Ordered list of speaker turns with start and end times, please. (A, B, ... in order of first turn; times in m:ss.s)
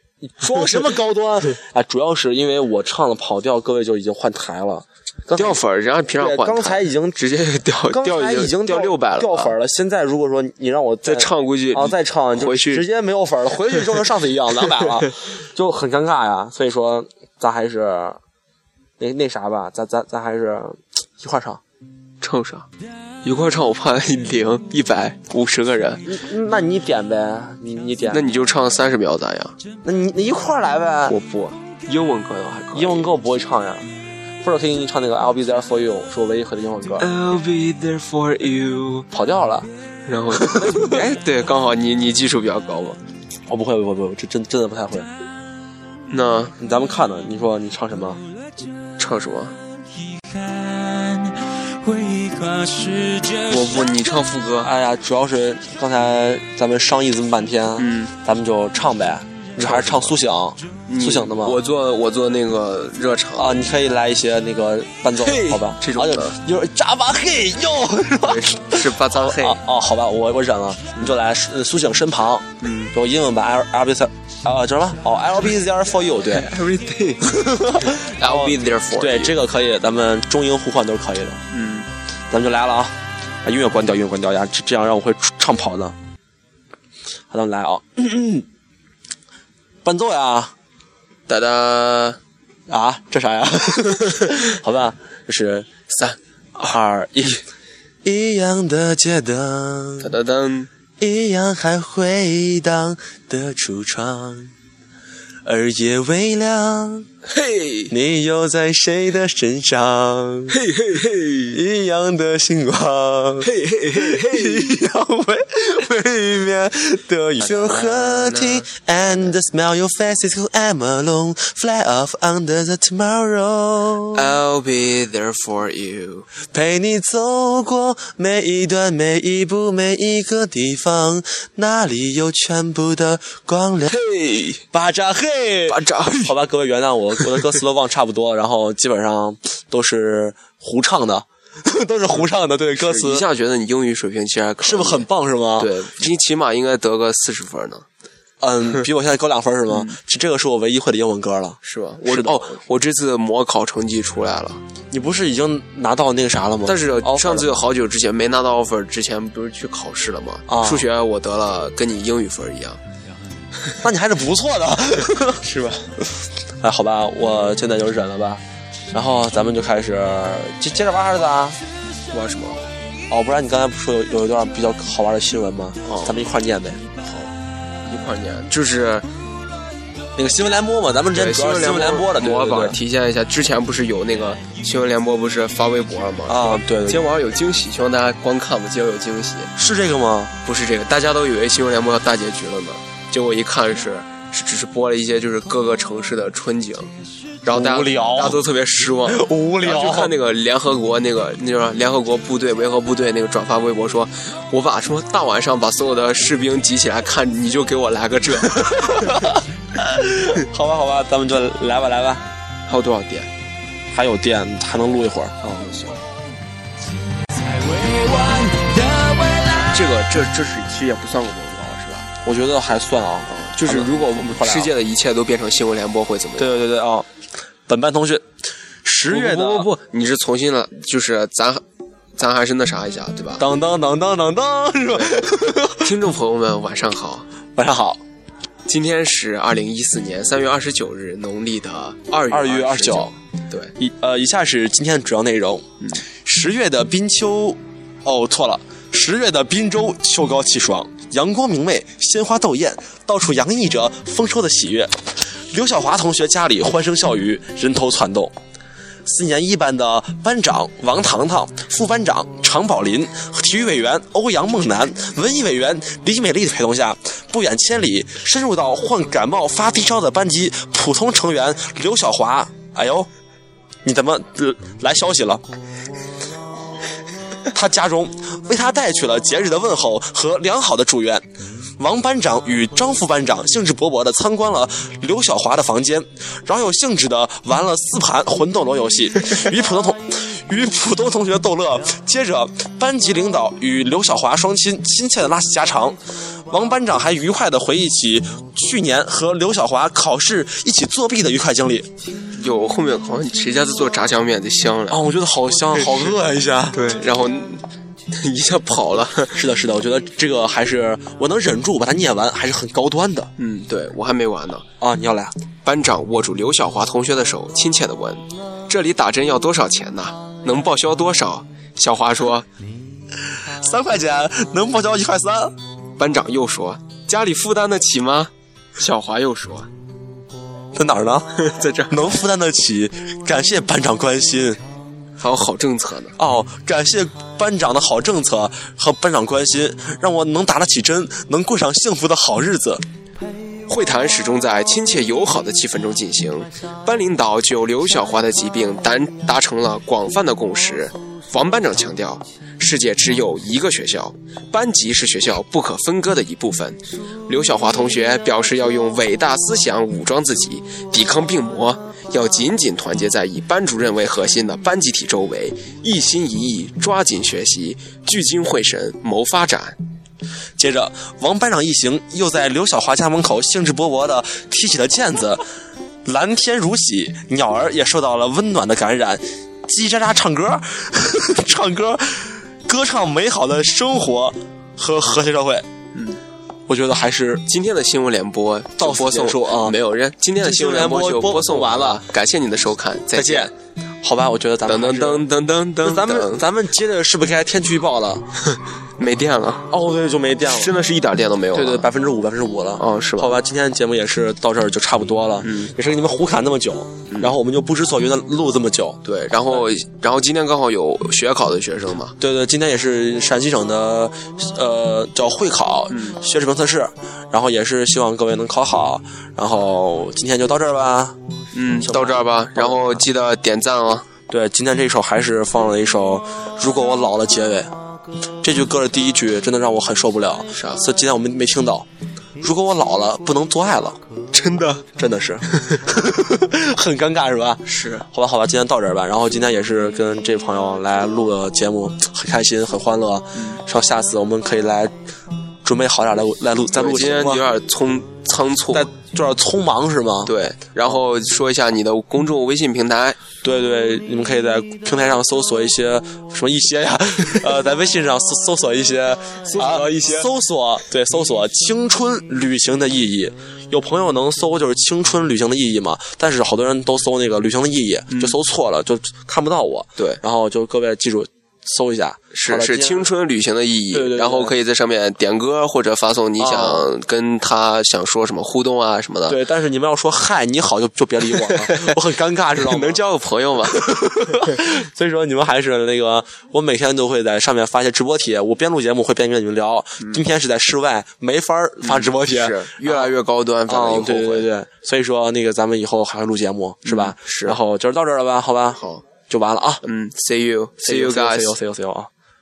0:00.2-0:05.6 A
0:00.5-0:00.8 B
0:05.4-0:09.5 B
0:06.2-0:07.2 A
0:07.9-0:18.2 A
0:11.0-0:12.8 B
0:19.0-0:21.6 A
0:22.2-0:22.7 B
0:23.2-0:26.0 B
0:26.1-0:28.3 A
0:28.1-0:29.6 B
0:29.8-0:31.2 A
0:31.1-0:33.1 B
0:32.7-0:33.9 A
0:34.4-0:37.1 A
0:37.0-0:39.1 B
0:39.1-0:39.7 A
0:40.1-0:43.0 B
0:40.3-0:41.0 A
0:43.5-0:45.1 A
0:46.1-0:46.5 B
0:46.6-0:48.2 A
0:49.0-0:49.6 B
0:50.3-0:54.0 C
0:53.5-0:54.7 B
0:54.6-1:01.6 A
0:57.8-0:58.1 B
0:59.6-1:00.2 B
1:00.9-1:03.6 B
1:03.4-1:16.5 A
1:05.2-1:06.4 B
1:08.2-1:09.6 B
1:12.6-1:12.9 B
1:16.3-1:19.3 B
1:17.2-1:21.4 A
1:21.5-1:21.9 B
1:22.3-1:22.9 A
1:23.4-1:26.0 A
1:27.3-1:28.4 A
1:29.8-1:30.5 A
1:31.3-1:32.2 B
1:32.7-1:35.9 A
1:35.9-1:36.2 B
1:36.6-1:37.4 A
1:38.0-1:40.1 A
1:40.0-1:40.7 B
1:41.0-1:44.5 A
1:45.4-1:47.1 A
1:47.3-1:47.9 B
1:47.9-1:50.6 A
1:50.5-1:51.6 B
1:51.5-2:04.3 A
1:53.4-1:54.7 B
1:57.4-1:58.7 B
2:04.1-2:06.3 B
2:06.5-2:13.9 A
2:13.9-2:14.6 B
2:14.7-2:23.2 A
2:15.7-2:16.3 B
2:22.8-2:25.1 B
2:24.6-2:25.8 A
2:25.6-2:27.9 B
2:28.4-2:32.5 A
2:29.7-2:30.0 B
2:31.6-2:34.6 B
2:34.9-2:37.6 A
2:36.6-2:42.8 B
2:40.5-2:40.9 A
2:43.8-2:45.4 A
2:45.4-2:45.9 B
2:46.6-2:51.6 A
2:52.1-2:52.6 B
2:53.1-2:56.8 A
2:55.8-2:56.2 B
2:57.0-2:57.3 B
2:57.9-2:59.0 B
3:00.2-3:02.8 A
3:01.1-3:09.5 B
3:06.3-3:07.1 A
3:09.6-3:10.3 A
3:10.4-3:16.9 B
3:17.4-3:29.4 B
3:17.5-3:18.4 A
3:19.0-3:20.1 A
3:28.5-3:32.2 A
3:32.7-3:33.3 B
3:33.9-3:35.4 A
3:35.4-3:36.0 B
3:37.3-3:39.9 C
3:39.7-3:42.1 B
3:42.2-3:44.7 A
3:43.3-3:46.6 B
3:46.4-3:47.1 A
3:47.7-3:48.3 A
3:48.8-3:49.7 A
3:49.1-3:51.6 B
3:52.2-3:53.4 B
3:53.4-3:55.9 A
3:55.8-3:57.3 B
3:57.6-3:58.0 A
3:58.7-4:03.7 B
4:02.3-4:03.1 A
4:03.8-4:18.3 A
4:19.0-4:33.1 A
4:33.8-4:35.4 A
4:37.5-4:41.2 A
4:41.8-4:56.0 A
4:56.5-5:01.9 A
5:02.3-5:05.0 B
5:04.9-5:06.8 A
5:05.8-5:06.1 B
5:06.7-5:09.4 B
5:09.3-5:13.3 A
5:13.4-5:14.6 B
5:14.8-5:15.3 A
5:15.6-5:22.5 B
5:23.3-5:25.5 A
5:26.0-5:29.7 B
5:30.7-5:34.6 A
5:31.4-5:32.1 B
5:35.2-5:36.1 B
5:36.2-5:42.8 A
5:43.7-6:09.8 B
6:10.6-6:15.4 A
6:16.0-6:25.7 A
6:25.9-6:26.2 B
6:26.7-6:27.4 A
6:27.5-6:33.5 B
6:28.8-6:29.8 A
6:30.4-6:32.1 A
6:33.1-6:35.3 A
6:34.6-6:36.4 B
6:35.8-6:38.2 A
6:38.5-6:39.7 B
6:39.7-6:40.7 A
6:40.5-6:41.9 B
6:41.5-6:49.0 A
6:42.8-6:43.3 B
6:45.4-6:45.7 B
6:47.1-6:47.3 B
6:49.0-6:52.1 B
6:52.2-7:01.2 A
7:01.5-7:04.1 B
7:01.8-7:03.0 A
7:04.3-7:07.7 A
7:08.4-7:11.9 A
7:12.4-7:14.0 A
7:14.3-7:14.8 B
7:15.0-7:24.9 A
7:15.5-7:15.8 B
7:17.6-7:18.0 B
7:25.6-7:27.4 A
7:26.7-7:28.9 B
7:28.7-7:30.3 A
7:30.3-7:33.2 B
7:33.4-7:53.1 A
7:39.5-7:40.3 B
7:48.1-7:48.4 B
7:52.3-7:59.4 B
7:53.9-7:54.5 A
7:56.4-7:56.9 A
7:59.3-8:03.0 A
8:01.4-8:02.0 B
8:02.6-8:03.9 B
8:03.7-8:13.1 A
8:11.8-8:14.5 B
8:13.7-8:19.8 A
8:16.8-8:17.6 B
8:18.8-8:19.0 B
8:19.8-8:21.6 B
8:20.8-8:22.1 A